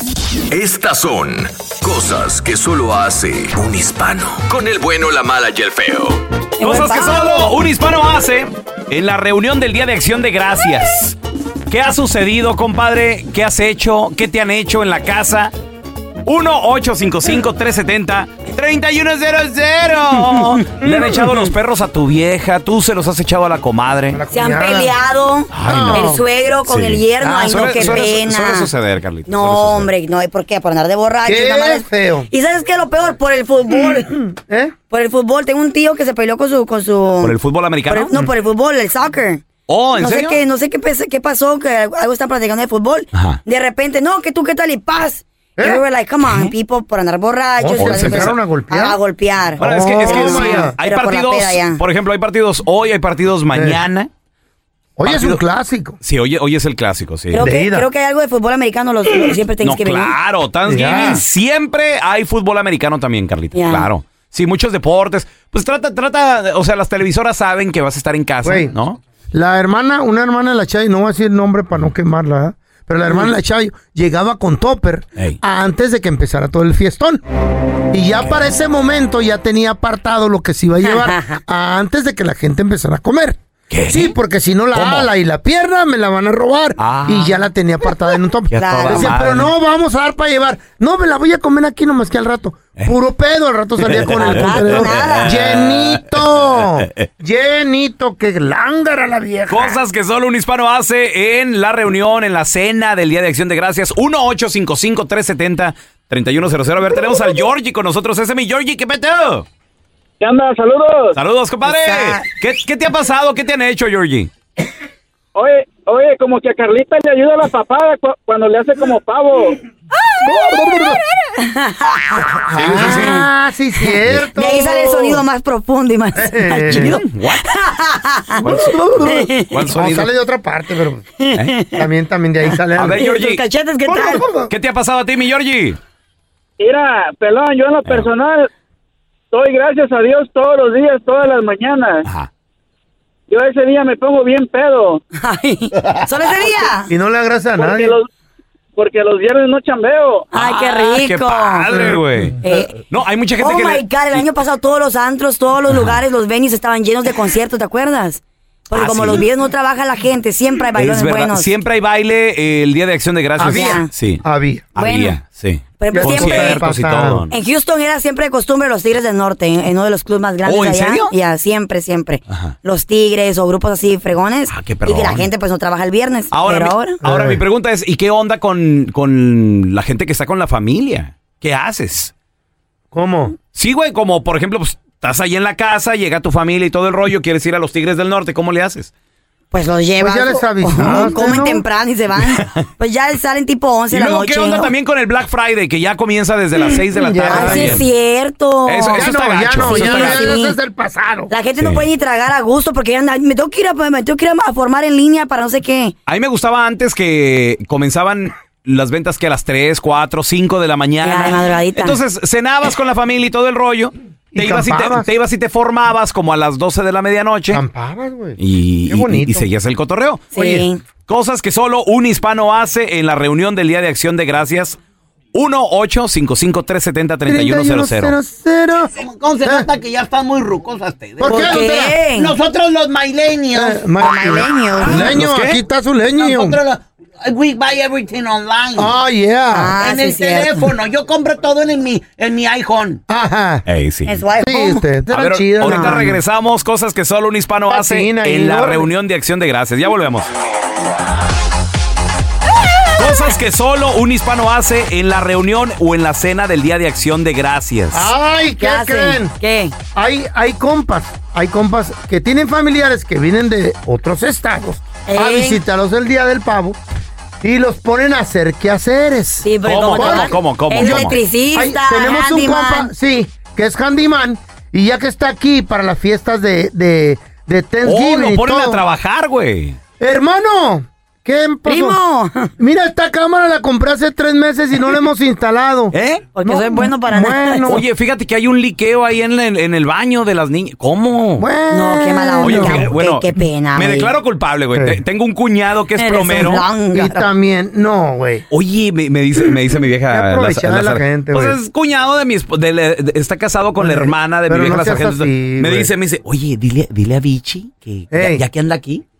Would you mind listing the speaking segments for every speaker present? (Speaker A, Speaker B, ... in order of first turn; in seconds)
Speaker A: 0.5-6.2
Speaker B: 6.6-7.5, 24.3-28.7, 29.3-34.1, 34.9-37.4, 37.9-39.4, 40.0-51.8, 57.3-60.1, 63.5-63.9, 80.8-81.4, 88.6-89.1, 94.1-95.4, 111.7-112.2, 121.4-123.3, 123.9-128.5, 129.0-129.5, 131.2-131.9, 132.5-134.2, 145.1-146.9, 150.3-151.7, 152.4-152.7, 153.4-161.5, 163.4-163.9, 164.8-165.2, 165.8-166.6, 167.3-177.0, 189.5-194.7, 197.2-200.6, 201.3-205.9, 211.0-212.0, 220.3-220.8, 231.2-232.3, 234.0-235.1, 239.5-240.7, 244.1-244.8, 245.6-246.2, 258.6-259.7, 265.1-265.6, 269.4-272.9, 281.6-282.5, 286.4-287.7, 291.7-294.1, 296.0-297.2
Speaker C: 6.6-11.2, 11.7-15.5, 16.2-24.2, 25.5-26.1, 26.7-29.9, 37.2-38.2, 39.7-40.4, 43.1-43.4, 47.7-48.3, 49.6-54.1, 55.0-55.4, 56.0-57.5, 59.6-69.0, 83.7-84.1, 84.7-85.1, 86.8-87.4, 88.5-89.5, 93.8-97.1, 99.5-109.5, 111.1-114.3, 122.5-123.2, 126.7-127.4, 128.4-130.1, 132.8-133.4, 134.5-135.8, 142.0-142.3, 150.3-154.2, 155.7-156.0, 158.7-159.2, 160.8-164.2, 164.7-167.3, 170.4-171.1, 172.3-172.5, 174.5-175.3, 176.3-182.1, 183.5-188.9, 192.3-192.6, 193.9-197.8, 198.7-200.3, 201.6-201.8, 206.1-217.6, 218.4-220.3, 221.1-224.8, 225.3-228.2, 234.8-235.6, 243.7-244.2, 245.1-250.3, 252.9-258.1, 269.6-271.1, 277.8-279.8, 285.9-286.2, 287.7-291.4, 292.4-296.6, 298.5-309.0
Speaker D: 24.1-24.9, 25.7-26.2, 27.4-28.0, 31.2-32.3, 33.7-34.7, 45.6-45.8, 47.6-49.0, 49.6-50.7, 53.5-53.8, 55.0-56.0, 57.4-57.9, 60.7-61.2, 68.4-68.7, 69.3-77.2, 77.9-99.8, 120.2-121.0, 122.3-125.2, 126.2-127.0, 128.4-131.1, 131.8-133.1, 133.8-134.5, 146.9-148.0, 163.4-164.7, 165.9-167.2, 177.0-177.4, 182.9-183.3, 190.0-191.6, 196.9-197.8, 198.9-201.3, 214.3-215.1, 217.5-219.4, 220.3-220.6, 227.3-229.7, 231.2-231.9, 233.5-236.6, 238.8-239.8, 243.1-243.6, 244.4-246.0, 247.7-248.9, 257.9-259.3, 259.9-266.8, 267.4-278.8, 280.0-282.0, 282.6-287.8, 291.4-292.9, 294.7-295.0, 296.9-298.4, 300.1-301.6, 303.8-305.9, 308.1-308.4
Speaker E: 110.2-111.2, 115.3-119.6, 136.6-138.5, 139.3-142.0, 143.3-145.0, 147.6-148.1, 148.8-150.3
Speaker F: 228.9-231.6, 232.2-233.8, 236.1-238.9, 239.8-243.0